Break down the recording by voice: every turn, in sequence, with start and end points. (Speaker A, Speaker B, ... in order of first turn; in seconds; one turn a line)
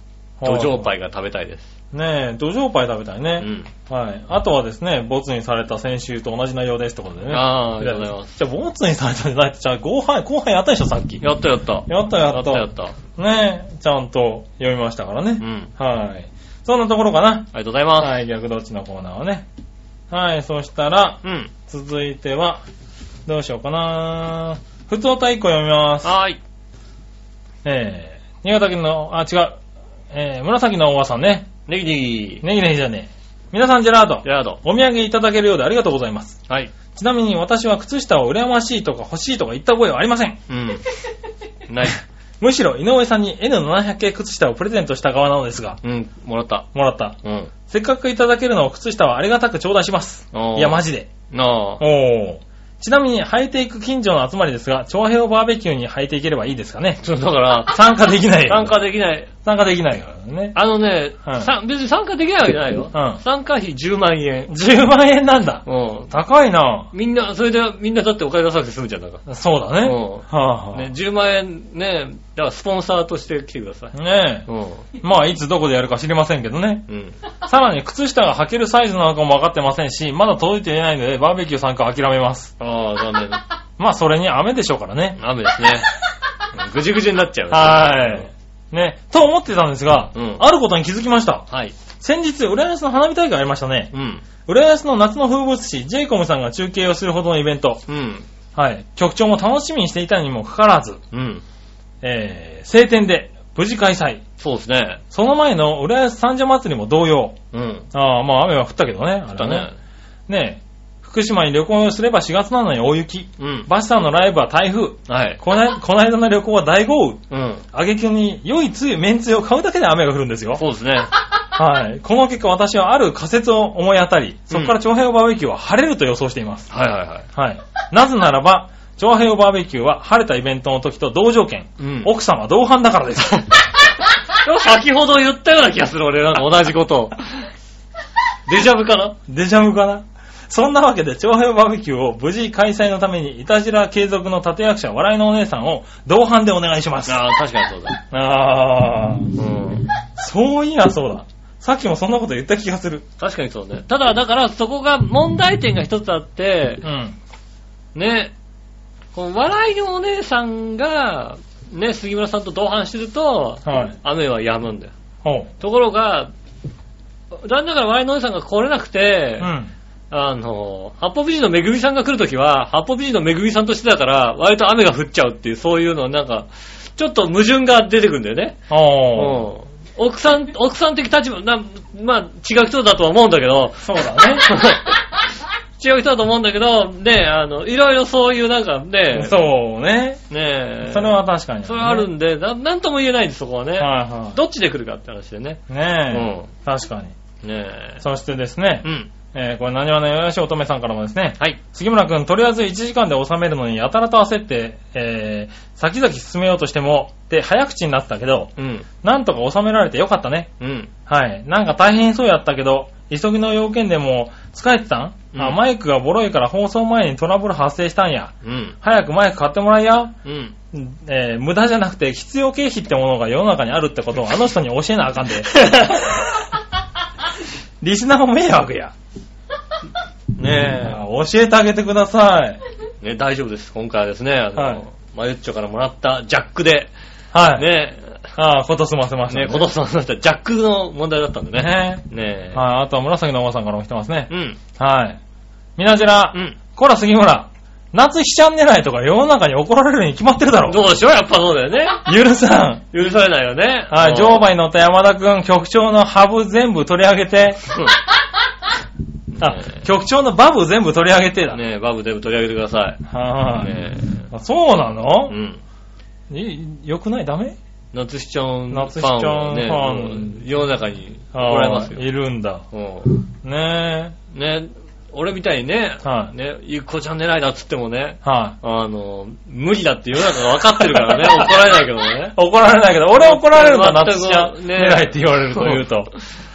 Speaker A: 0.4-0.9
Speaker B: 0.4-1.7
Speaker A: 1.9-11.2
Speaker B: 3.4-3.7
Speaker B: 7.3-8.3
Speaker B: 11.2-13.0
Speaker A: 11.9-19.5
Speaker B: 15.4-15.7
Speaker B: 17.5-18.1
Speaker A: 20.1-22.6
Speaker B: 21.2-21.5
Speaker A: 23.3-26.1
Speaker B: 26.0-26.4
Speaker A: 27.6-29.6
Speaker A: 30.1-31.5
Speaker B: 31.7-32.4
Speaker A: 32.4-36.4
Speaker B: 34.2-34.6
Speaker A: 36.9-40.4
Speaker B: 40.5-40.9
Speaker B: 41.7-42.0
Speaker A: 42.4-45.8
Speaker B: 45.8-46.7
Speaker A: 46.7-47.2
Speaker B: 47.2-47.5
Speaker A: 47.7-51.1
Speaker B: 50.3-51.8
Speaker A: 51.8-57.0
Speaker B: 57.0-57.8
Speaker A: 57.7-58.8
Speaker B: 58.5-59.3
Speaker A: 59.4-60.6
Speaker B: 60.5-64.5
Speaker A: 61.2-61.5
Speaker A: 62.9-63.2
Speaker A: 64.5-66.9
Speaker B: 65.7-66.2
Speaker B: 66.9-69.2
Speaker A: 69.3-70.9
Speaker B: 69.8-73.9
Speaker A: 73.9-76.9
Speaker B: 74.5-74.9
Speaker B: 76.9-77.2
Speaker A: 77.4-82.5
Speaker B: 82.6-83.4
Speaker A: 83.8-85.2
Speaker B: 85.2-85.9
Speaker B: 86.5-88.3
Speaker A: 87.5-91.5
Speaker B: 90.1-90.4
Speaker B: 91.5-91.8
Speaker A: 92.0-93.9
Speaker B: 93.9-94.2
Speaker A: 94.5-97.8
Speaker B: 97.9-98.3
Speaker A: 98.6-101.0
Speaker B: 101.1-101.4
Speaker A: 102.0-104.2
Speaker B: 104.4-105.0
Speaker A: 105.1-107.4
Speaker B: 107.5-107.9
Speaker A: 107.9-109.7
Speaker B: 109.3-109.8
Speaker A: 110.3-120.6
Speaker B: 113.4-113.7
Speaker B: 115.1-115.4
Speaker B: 117.3-117.6
Speaker B: 120.6-121.1
Speaker A: 121.5-126.7
Speaker B: 124.5-124.8
Speaker B: 126.7-127.3
Speaker A: 127.3-133.5
Speaker B: 131.8-132.1
Speaker B: 134.4-137.5
Speaker B: 138.5-139.2
Speaker A: 139.3-147.2
Speaker B: 147.1-148.0
Speaker A: 148.1-149.3
Speaker B: 149.4-149.9
Speaker A: 150.1-153.1
Speaker B: 153.2-156.8
Speaker A: 156.8-157.2
Speaker B: 157.9-158.3
Speaker B: 159.2-164.9
Speaker A: 163.7-164.0
Speaker A: 165.2-165.5
Speaker B: 165.6-166.3
Speaker B: 167.3-169.5
Speaker A: 169.4-169.7
Speaker B: 170.1-183.9
Speaker A: 178.7-179.5
Speaker A: 183.8-184.5
Speaker B: 184.4-185.0
Speaker B: 185.8-189.4
Speaker A: 189.1-190.2
Speaker B: 190.3-196.5
Speaker A: 190.8-192.1
Speaker A: 193.8-194.4
Speaker A: 195.7-197.1
Speaker B: 197.4-198.0
Speaker A: 198.0-208.5
Speaker B: 198.8-199.1
Speaker B: 208.6-208.9
Speaker A: 209.0-210.5
Speaker B: 210.6-210.9
Speaker A: 211.1-220.2
Speaker B: 215.3-215.6
Speaker B: 218.4-218.8
Speaker B: 220.2-220.6
Speaker A: 220.7-226.6
Speaker A: 227.8-228.9
Speaker B: 230.4-231.0
Speaker A: 230.7-232.6
Speaker B: 233.0-236.9
Speaker A: 234.6-234.8
Speaker A: 237.3-237.7
Speaker B: 237.5-238.3
Speaker A: 238.4-239.7
Speaker B: 239.3-242.6
Speaker A: 241.6-245.2
Speaker B: 244.3-244.6
Speaker A: 245.8-250.8
Speaker B: 250.7-252.1
Speaker A: 252.1-252.9
Speaker B: 252.9-254.4
Speaker A: 253.9-257.6
Speaker B: 257.7-258.0
Speaker B: 259.3-259.9
Speaker A: 259.4-261.6
Speaker B: 261.5-264.3
Speaker A: 263.1-265.4
Speaker B: 265.3-265.6
Speaker A: 266.3-267.6
Speaker B: 267.9-272.0
Speaker A: 268.7-270.4
Speaker A: 271.3-272.6
Speaker B: 272.7-273.2
Speaker A: 273.3-274.2
Speaker B: 274.3-282.4
Speaker A: 276.0-276.3
Speaker A: 278.2-278.6
Speaker A: 280.3-281.6
Speaker A: 282.3-286.1
Speaker B: 283.2-286.2